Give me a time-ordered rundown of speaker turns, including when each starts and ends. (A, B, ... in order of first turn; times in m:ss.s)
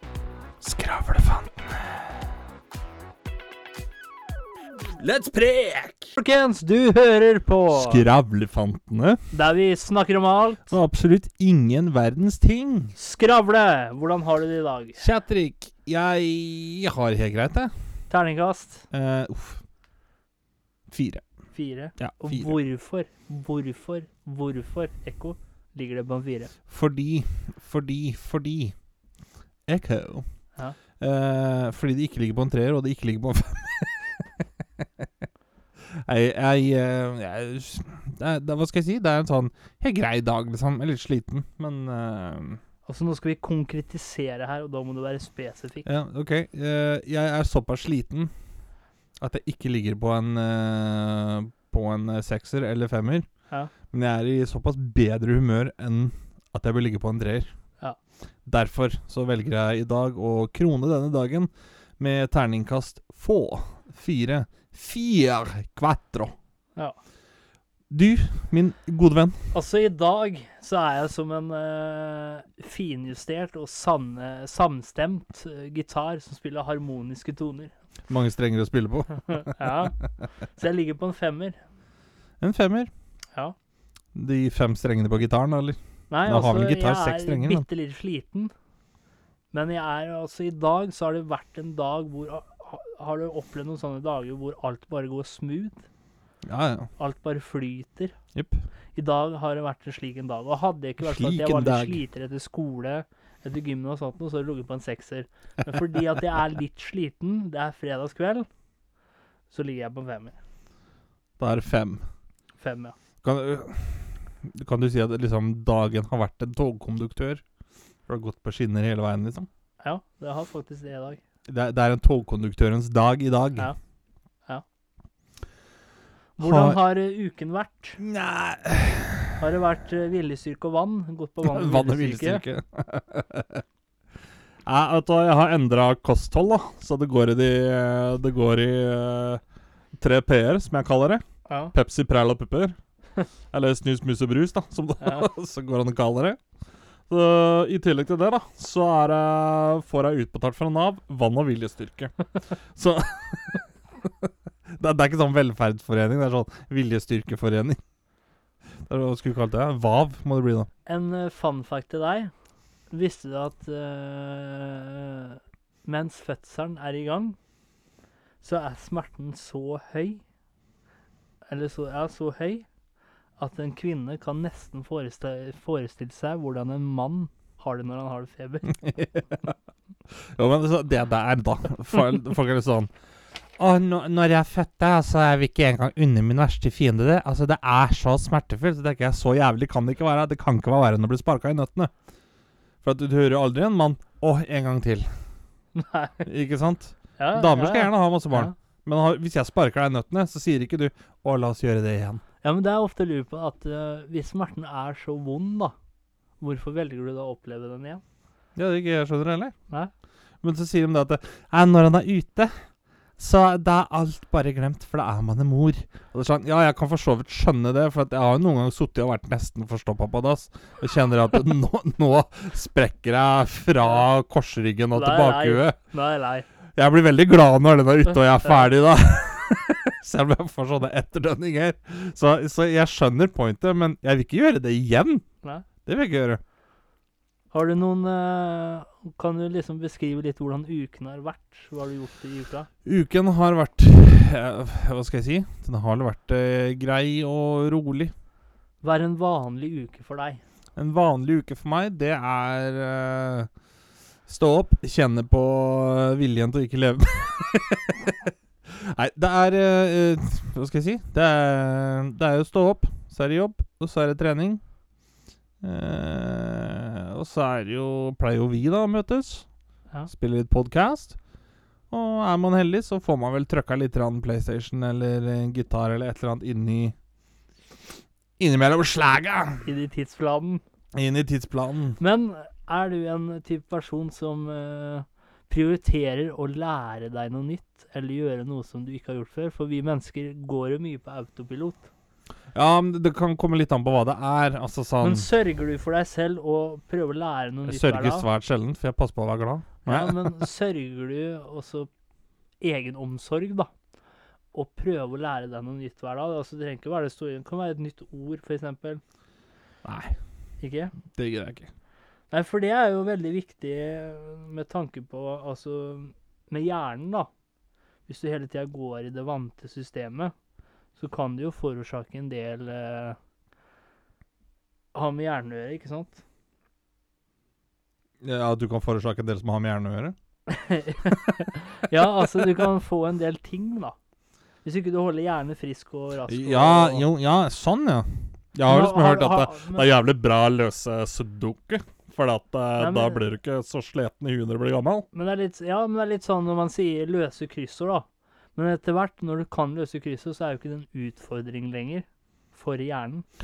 0:00.6-0:02.1 A
0:05.0-0:06.1 A
0:06.1-0:08.1 B
0:07.7-0:09.2 A
0:09.3-0:10.7 B
0:10.7-0:12.9 A
0:13.0-0:15.0 B
0:15.0-0:17.7 A
0:18.1-0:18.9 B
0:18.9-0:19.6 A
0:20.9-0:21.2 A
0:21.5-0:26.5 B
0:22.0-0:22.6 A
0:26.7-0:28.7 A
0:29.7-0:30.2 A
0:31.0-0:35.1 A
0:35.8-0:42.6 A
0:42.8-0:45.9 B
0:45.8-0:48.3 A
0:49.2-0:53.3 A
0:53.9-0:57.5 A
0:58.4-1:06.3 A
1:07.9-1:09.5 A
1:09.5-1:17.7 B
1:18.1-1:19.8 A
1:19.2-1:21.6 B
1:22.4-1:22.9 A
1:24.1-1:27.6 A
1:26.1-1:28.5 B
1:29.5-1:35.8 B
1:36.4-1:36.9 A
1:37.0-1:38.1 B
1:38.3-1:38.6 A
1:38.9-1:48.5 B
1:41.0-1:42.0 A
1:49.5-1:50.4 B
1:51.4-1:52.0 A
1:52.6-1:53.0 B
1:53.2-1:57.4 A
1:58.1-1:59.5 A
1:59.8-2:01.2 B
2:01.5-2:03.7 A
2:06.4-2:08.0 B
2:06.4-2:06.8 A
2:08.0-2:09.4 A
2:09.4-2:12.4 B
2:11.4-2:13.6 A
2:14.6-2:19.4 A
2:20.0-2:22.8 A
2:21.5-2:21.7 B
2:23.5-2:26.4 A
2:25.0-2:25.3 B
2:27.1-2:32.1 A
2:32.7-2:37.8 A
2:38.8-2:40.7 A
2:40.8-2:42.3 B
2:42.9-2:47.4 B
2:48.4-2:50.2 B
2:51.5-2:52.6 B
2:53.4-2:58.8 B
2:58.7-2:59.5 A
3:00.1-3:02.9 A
3:03.6-3:11.9 A
3:12.8-3:15.1 A
3:15.7-3:16.3 B
3:16.2-3:22.2 A
3:17.2-3:18.5 B
3:22.4-3:25.7 B
3:26.4-3:28.0 B
3:28.6-3:29.5 A
3:30.4-3:32.5 A
3:33.2-3:45.8 A
3:44.9-3:46.4 B
3:46.7-3:55.2 A
3:55.8-3:56.4 A
3:57.5-4:02.7 B
4:02.8-4:08.1 A
4:08.8-4:10.4 B
4:10.8-4:13.5 A
4:14.3-4:24.6 A
4:25.6-4:29.4 A
4:30.1-4:31.2 A
4:31.9-4:36.9 A
4:38.4-4:39.6 A
4:39.6-4:40.6 B
4:40.9-4:42.0 A
4:42.0-4:51.9 B
4:52.5-4:55.3 A
4:55.0-4:58.2 B
4:57.7-5:00.4 A
4:59.8-5:01.9 B
5:02.6-5:03.7 B
5:04.5-5:09.0 B
5:09.8-5:10.2 A
5:10.6-5:11.0 B
5:11.1-5:11.7 A
5:12.3-5:17.3 B
5:18.1-5:20.3 B
5:21.0-5:23.2 B
5:24.9-5:26.2 B
5:28.2-5:30.2 A
5:30.5-5:33.9 B
5:31.0-5:32.6 A
5:34.6-5:37.1 B
5:36.3-5:45.0 A
5:38.6-5:39.8 B
5:42.8-5:43.2 B
5:45.1-5:53.2 B